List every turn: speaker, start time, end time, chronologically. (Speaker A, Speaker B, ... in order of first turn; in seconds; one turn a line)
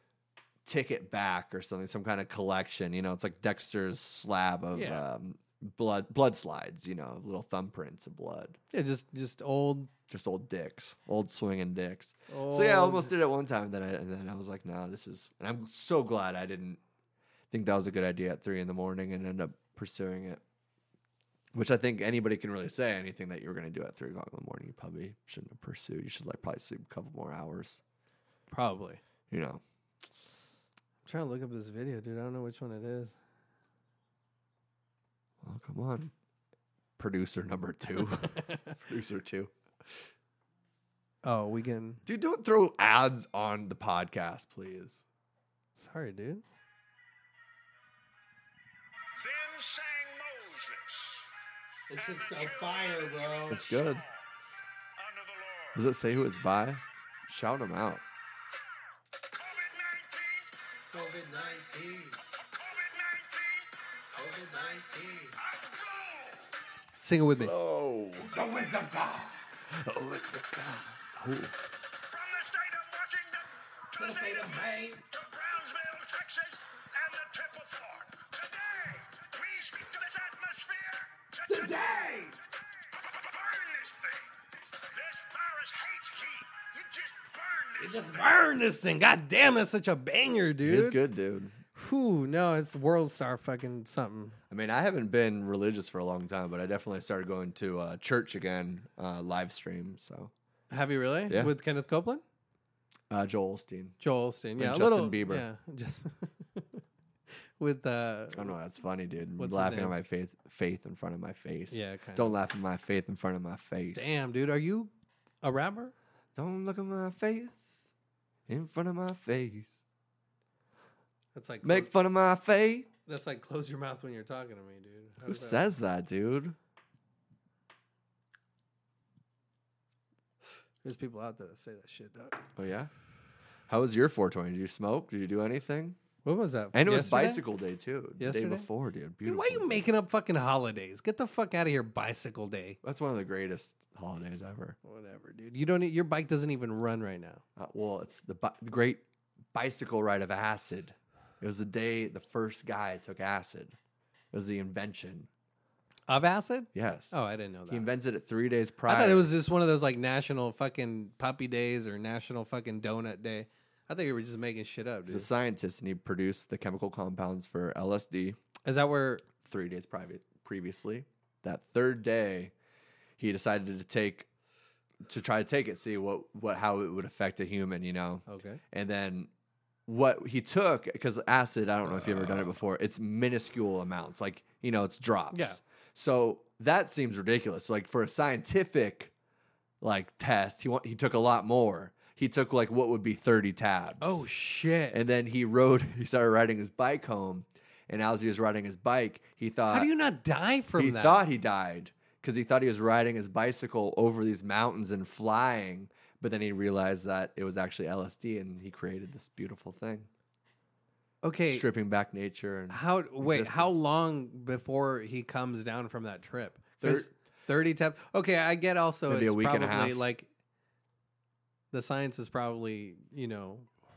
Speaker A: 0.6-8.6
Speaker B: 4.7-5.0
Speaker B: 8.7-9.9
Speaker A: 10.1-16.8
Speaker B: 12.3-13.1
Speaker A: 17.5-20.4
Speaker A: 21.5-27.8
Speaker B: 28.5-29.0
Speaker A: 29.3-29.6
Speaker B: 31.1-33.1
Speaker A: 35.4-36.1
Speaker A: 37.0-39.5
Speaker B: 41.2-42.0
Speaker A: 42.0-45.0
Speaker B: 45.8-46.4
Speaker C: 49.2-51.3
Speaker B: 51.9-53.6
Speaker C: 51.9-54.2
Speaker A: 53.5-54.0
Speaker C: 55.0-55.8
Speaker A: 55.7-58.0
Speaker C: 59.3-66.5
Speaker B: 60.9-62.2
Speaker B: 64.1-65.4
Speaker B: 67.0-67.5
Speaker A: 67.3-68.4
Speaker B: 68.3-69.4
Speaker A: 69.7-71.5
Speaker C: 72.0-82.3
Speaker B: 74.0-75.0
Speaker B: 81.5-82.4
Speaker C: 82.9-88.3
Speaker B: 87.8-91.0
Speaker A: 90.6-91.5
Speaker B: 91.7-94.4
Speaker A: 94.5-100.3
Speaker B: 100.7-102.2
Speaker A: 103.1-104.0
Speaker B: 104.0-106.8
Speaker A: 104.6-105.5
Speaker B: 107.6-108.5
Speaker A: 108.3-114.2
Speaker B: 109.4-109.9
Speaker B: 111.7-112.4
Speaker B: 113.9-114.9
Speaker B: 115.4-115.9
Speaker A: 116.3-117.7
Speaker A: 118.5-119.8
Speaker B: 121.3-121.9
Speaker A: 121.6-122.9
Speaker B: 123.0-125.7
Speaker A: 125.2-126.5
Speaker B: 130.8-132.4
Speaker A: 132.6-132.9
Speaker A: 133.7-136.0
Speaker B: 136.2-137.4
Speaker A: 136.7-139.9
Speaker B: 138.2-138.7
Speaker B: 139.2-142.8
Speaker A: 142.8-144.8
Speaker B: 144.8-147.4
Speaker A: 147.6-149.0
Speaker A: 149.5-153.8
Speaker A: 154.3-155.3
Speaker B: 156.1-157.8
Speaker A: 156.7-157.1
Speaker A: 157.7-159.3
Speaker B: 158.8-165.3
Speaker A: 165.1-168.4
Speaker B: 168.6-169.3
Speaker A: 169.4-172.5
Speaker A: 173.2-174.3
Speaker A: 175.0-179.3
Speaker B: 178.3-178.6
Speaker A: 179.9-189.1
Speaker B: 185.3-185.6
Speaker A: 189.8-194.2
Speaker B: 194.0-195.0
Speaker A: 194.9-199.9
Speaker B: 199.7-201.2
Speaker A: 200.8-210.1
Speaker B: 211.2-211.6
Speaker A: 211.4-213.7
Speaker B: 212.7-220.3
Speaker A: 216.8-217.1
Speaker A: 219.1-220.0
Speaker B: 221.7-223.7